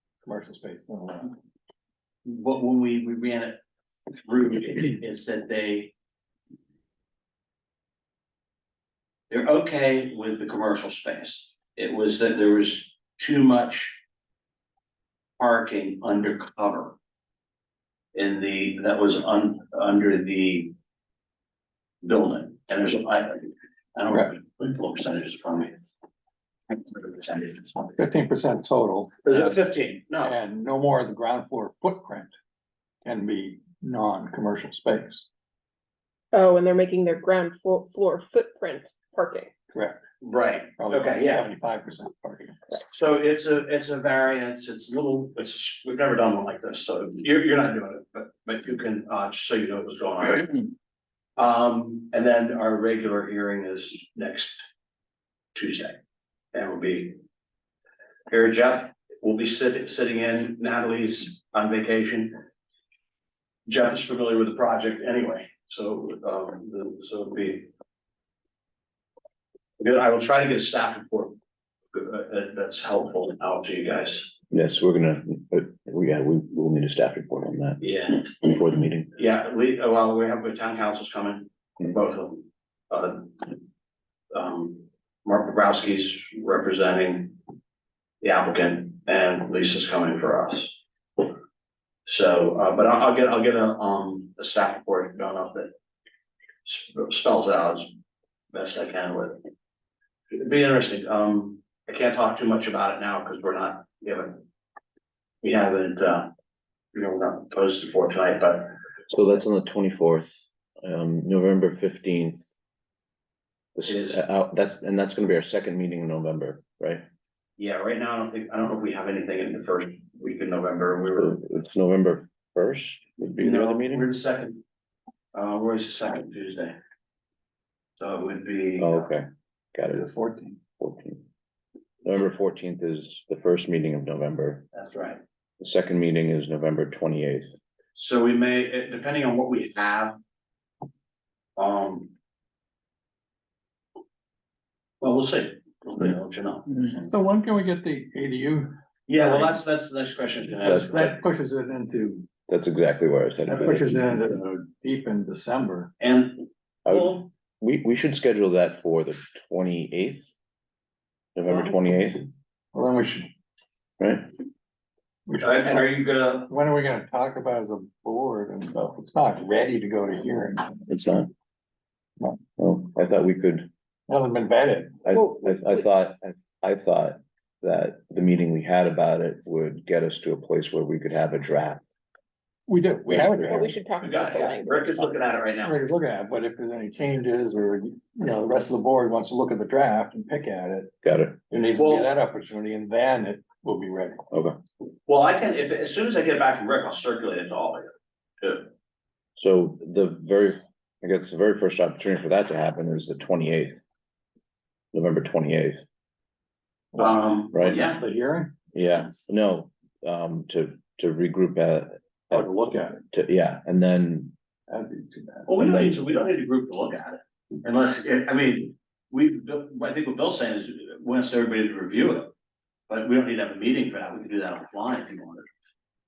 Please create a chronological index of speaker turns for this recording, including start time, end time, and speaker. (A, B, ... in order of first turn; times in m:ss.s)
0:00.2-0:01.4 A
0:02.2-0:03.6 B
0:04.2-0:05.9 B
0:09.3-0:14.0 B
0:15.4-0:16.9 B
0:18.1-0:20.7 B
0:22.0-0:25.7 B
0:26.7-0:27.8 B
0:27.8-0:29.6 A
0:29.2-0:30.3 B
0:30.2-0:32.3 A
0:33.0-0:35.3 A
0:36.3-0:39.5 C
0:39.7-0:40.0 A
0:40.2-0:41.5 B
0:40.8-0:42.6 A
0:42.7-0:50.6 B
0:51.4-0:54.6 B
0:55.5-0:56.0 B
0:56.5-0:57.2 B
0:58.3-1:02.4 B
1:03.7-1:07.7 B
1:09.8-1:11.3 B
1:11.9-1:14.3 B
1:14.5-1:19.1 D
1:17.8-1:18.4 B
1:19.2-1:23.6 B
1:24.3-1:27.4 B
1:28.2-1:31.2 B
1:32.0-1:35.7 B
1:36.6-1:37.9 B
1:38.5-1:39.4 B
1:40.3-1:44.4 B
1:45.4-1:46.3 B
1:46.9-1:48.7 B
1:49.1-1:52.5 D
1:53.8-1:57.0 D
1:53.9-1:54.2 B
1:57.6-2:01.4 B
2:01.2-2:04.0 D
2:03.4-2:04.6 B
2:05.3-2:06.8 B
2:08.0-2:09.1 B
2:08.8-2:10.0 D
2:09.9-2:10.6 A
2:10.8-2:11.2 D
2:12.0-2:14.7 D
2:14.7-2:15.2 B
2:15.6-2:17.5 D
2:17.9-2:20.2 B
2:21.6-2:22.1 B
2:25.0-2:26.7 B
2:26.9-2:29.6 A
2:29.1-2:31.2 B
2:30.6-2:31.2 D
2:30.9-2:32.3 A
2:32.5-2:34.2 D
2:33.4-2:35.9 A
2:36.0-2:37.3 B
2:36.8-2:40.3 D
2:41.3-2:42.2 D
2:42.7-2:43.3 A
2:44.0-2:44.3 D
2:45.3-2:45.9 A
2:45.4-2:46.5 B
2:46.5-2:50.8 A
2:50.9-2:51.3 D
2:52.6-2:53.7 D
2:54.1-2:55.0 A
2:55.0-3:01.8 D
2:55.3-2:55.8 C
3:02.7-3:03.7 A
3:03.0-3:03.6 D
3:03.4-3:04.9 C
3:04.0-3:05.8 B
3:05.6-3:10.9 A
3:11.0-3:11.4 D
3:11.5-3:14.2 A
3:11.8-3:12.1 B
3:15.0-3:17.9 B
3:18.4-3:18.7 B
3:19.4-3:23.8 D
3:24.9-3:25.8 D
3:26.9-3:28.5 A
3:26.9-3:28.0 B
3:27.5-3:27.8 D
3:28.7-3:32.5 D
3:32.3-3:33.0 A
3:33.1-3:34.3 D
3:34.7-3:35.5 A
3:35.4-3:42.3 B
3:35.6-3:36.0 D
3:42.9-3:45.5 B